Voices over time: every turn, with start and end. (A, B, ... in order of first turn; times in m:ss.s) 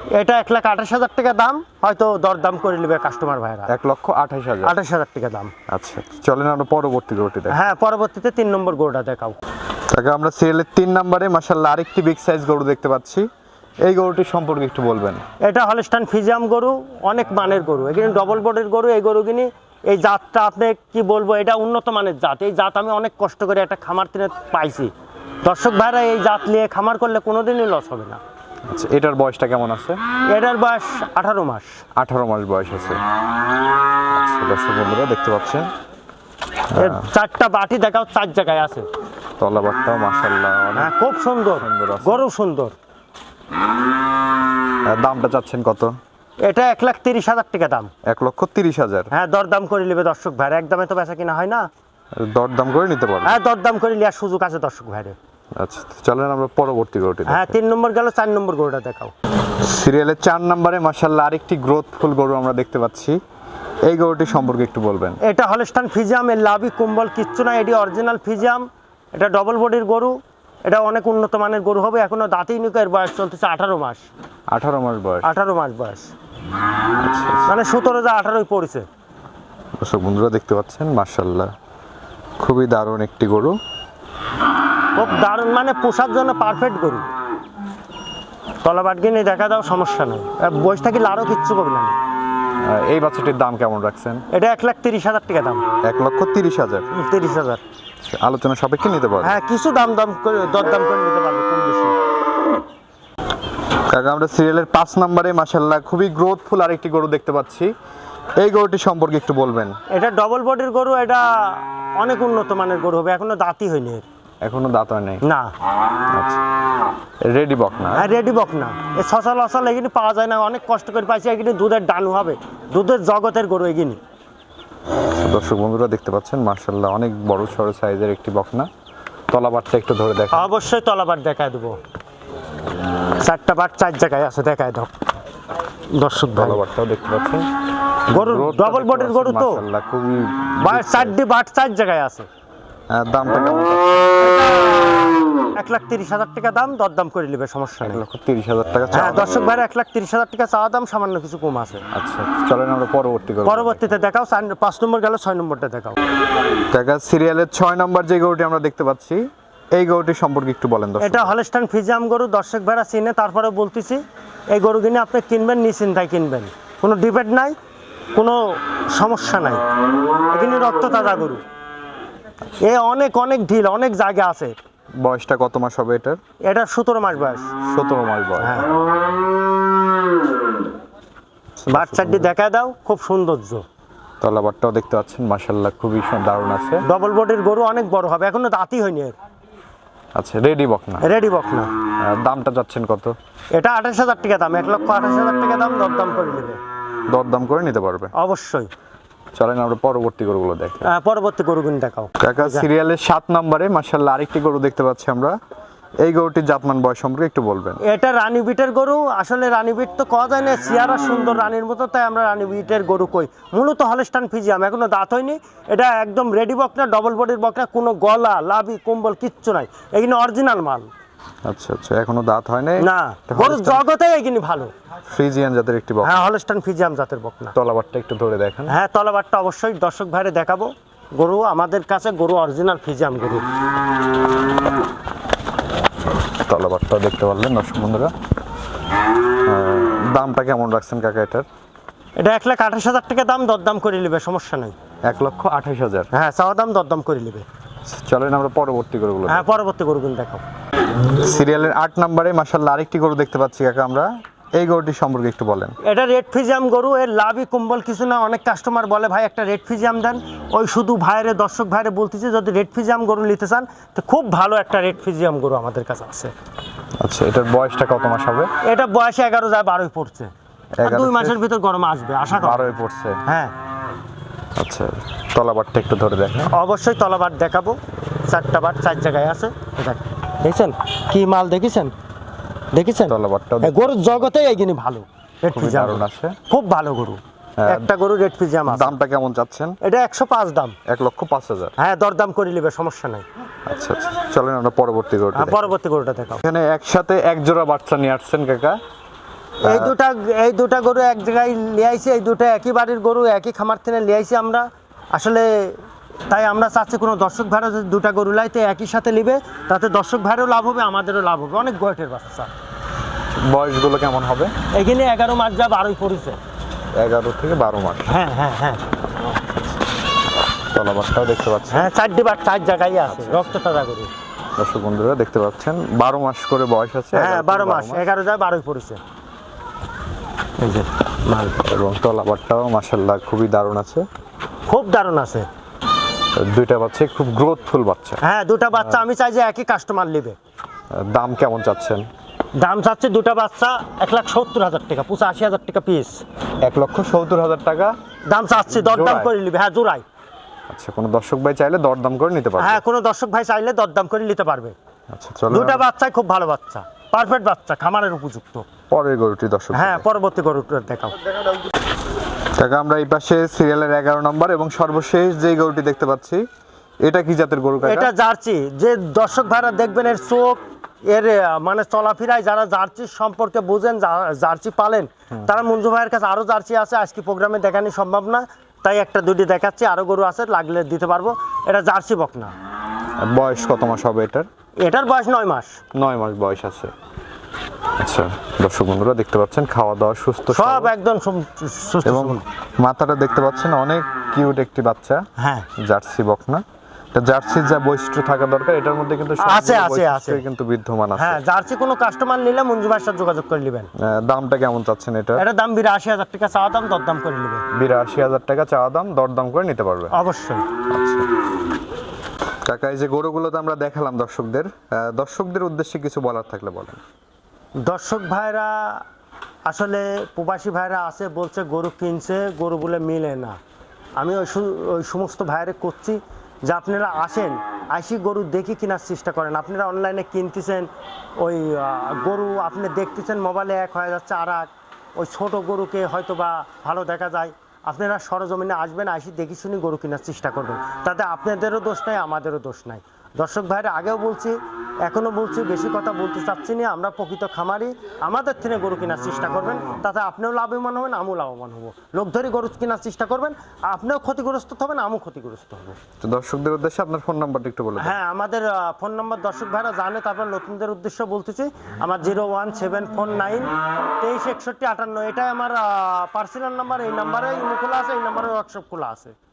0:00.2-0:03.7 A
0:03.7-0:04.7 B
0:04.6-0:05.5 A
0:05.7-0:07.7 B
0:07.5-0:09.4 A
0:09.9-0:13.2 B
0:13.8-0:15.2 B
0:15.4-0:24.9 A
0:25.4-0:28.2 A
0:28.7-0:30.0 B
0:30.3-0:31.8 A
0:32.0-0:33.0 B
0:34.1-0:35.7 B
0:36.7-0:37.0 B
0:36.8-0:38.8 A
0:39.4-0:40.9 B
0:40.8-0:42.7 A
0:41.5-0:42.2 B
0:44.9-0:45.9 B
0:46.4-0:47.9 A
0:48.1-0:49.1 B
0:49.1-0:51.7 A
0:52.2-0:53.4 B
0:53.2-0:55.2 A
0:55.6-0:57.6 B
0:57.3-0:59.1 A
0:59.6-1:03.2 B
1:03.9-1:05.2 B
1:05.2-1:10.1 A
1:10.7-1:14.0 A
1:14.5-1:15.3 B
1:15.2-1:16.1 A
1:17.0-1:17.5 B
1:17.4-1:18.8 A
1:19.8-1:21.5 B
1:22.4-1:23.6 B
1:25.0-1:27.1 A
1:28.6-1:32.0 A
1:32.6-1:34.2 B
1:34.3-1:35.6 A
1:35.8-1:36.9 B
1:36.9-1:37.6 A
1:38.0-1:39.4 B
1:39.2-1:41.9 A
1:43.9-1:47.7 B
1:48.4-1:49.8 B
1:49.9-1:54.0 A
1:54.4-1:55.2 B
1:55.2-1:55.5 A
1:56.1-1:56.4 B
1:57.3-1:58.1 B
1:57.9-2:04.0 A
2:05.1-2:08.7 B
2:09.3-2:10.5 B
2:10.3-2:11.8 A
2:13.2-2:14.9 A
2:16.0-2:16.6 A
2:16.3-2:17.4 B
2:18.1-2:19.6 A
2:18.1-2:21.2 B
2:20.6-2:22.3 A
2:22.9-2:24.2 B
2:24.2-2:28.0 A
2:27.8-2:29.4 B
2:28.9-2:31.8 A
2:31.9-2:33.9 B
2:33.4-2:36.0 A
2:36.7-2:41.3 B
2:41.0-2:44.0 A
2:44.5-2:47.5 A
2:48.9-2:49.6 A
2:50.3-2:51.4 A
2:52.6-2:54.6 A
2:55.0-2:56.2 B
2:56.5-2:57.5 A
2:57.7-2:58.7 B
2:58.4-2:58.7 A
3:01.6-3:02.3 B
3:01.7-3:03.6 A
3:04.2-3:06.8 B
3:06.9-3:09.1 A
3:10.2-3:11.1 B
3:11.0-3:11.7 A
3:12.0-3:13.1 B
3:13.6-3:16.6 A
3:17.1-3:18.1 B
3:18.2-3:18.7 A
3:19.4-3:20.9 B
3:20.8-3:22.7 A
3:22.2-3:25.4 B
3:26.0-3:27.8 B
3:27.8-3:40.9 A
3:41.4-3:43.8 B
3:42.8-3:44.7 A
3:45.1-3:46.3 B
3:46.0-3:47.6 A
3:47.6-3:48.7 B
3:48.7-3:53.4 A
3:56.4-3:58.1 B
3:59.4-4:01.4 B
4:02.2-4:04.7 A
4:05.1-4:06.1 B
4:06.1-4:07.4 A
4:07.9-4:09.6 B
4:09.3-4:10.4 A
4:11.1-4:15.8 B
4:15.8-4:26.3 A
4:27.0-4:28.5 B
4:28.6-4:30.3 A
4:30.8-4:31.4 B
4:30.8-4:32.8 A
4:32.4-4:33.2 B
4:33.2-4:33.5 A
4:34.6-4:36.5 B
4:36.5-4:41.9 A
4:42.7-4:49.0 A
4:43.1-4:44.6 B
4:45.5-4:46.4 B
4:47.6-4:47.9 B
4:48.7-4:49.8 B
4:49.8-4:50.8 A
4:50.9-4:51.8 B
4:51.8-4:53.2 A
4:53.7-4:55.7 B
4:55.4-4:56.4 A
4:56.4-4:58.8 B
4:59.6-5:05.7 A
4:59.6-4:59.9 B
5:06.3-5:12.5 A
5:13.4-5:14.5 B
5:14.8-5:16.4 A
5:17.0-5:18.1 B
5:18.1-5:18.8 A
5:20.7-5:21.9 B
5:21.7-5:24.1 A
5:23.1-5:23.5 B
5:24.6-5:28.1 B
5:27.1-5:29.0 A
5:30.6-5:31.6 A
5:31.6-5:34.0 B
5:34.7-5:35.4 A
5:36.3-5:38.2 B
5:38.2-5:40.4 A
5:40.9-5:42.0 B
5:42.6-5:46.2 A
5:46.6-5:47.9 B
5:48.3-5:50.0 A
5:48.7-5:49.3 B
5:50.7-5:52.8 B
5:52.6-5:54.8 A
5:55.1-5:55.8 B
5:55.5-5:58.7 A
5:58.9-6:00.0 B
5:59.7-6:01.2 A
6:02.6-6:06.4 B
6:07.0-6:08.1 B
6:07.8-6:22.5 A
6:23.2-6:24.5 B
6:24.8-6:25.8 A
6:26.0-6:26.9 B
6:28.0-6:30.9 B
6:30.5-6:32.4 A
6:32.0-6:35.2 B
6:35.4-6:35.7 A
6:35.8-6:41.4 B
6:39.4-6:40.4 A
6:41.2-6:43.9 A
6:44.0-6:45.4 B
6:45.4-6:47.6 A
6:47.8-6:50.1 B
6:50.1-6:50.6 A
6:50.9-6:51.2 B
6:52.6-6:57.0 B
6:57.8-6:59.0 A
6:59.7-7:03.6 A
7:04.2-7:10.9 A
7:11.4-7:36.0 A
7:36.2-7:38.2 B
7:38.0-7:49.3 A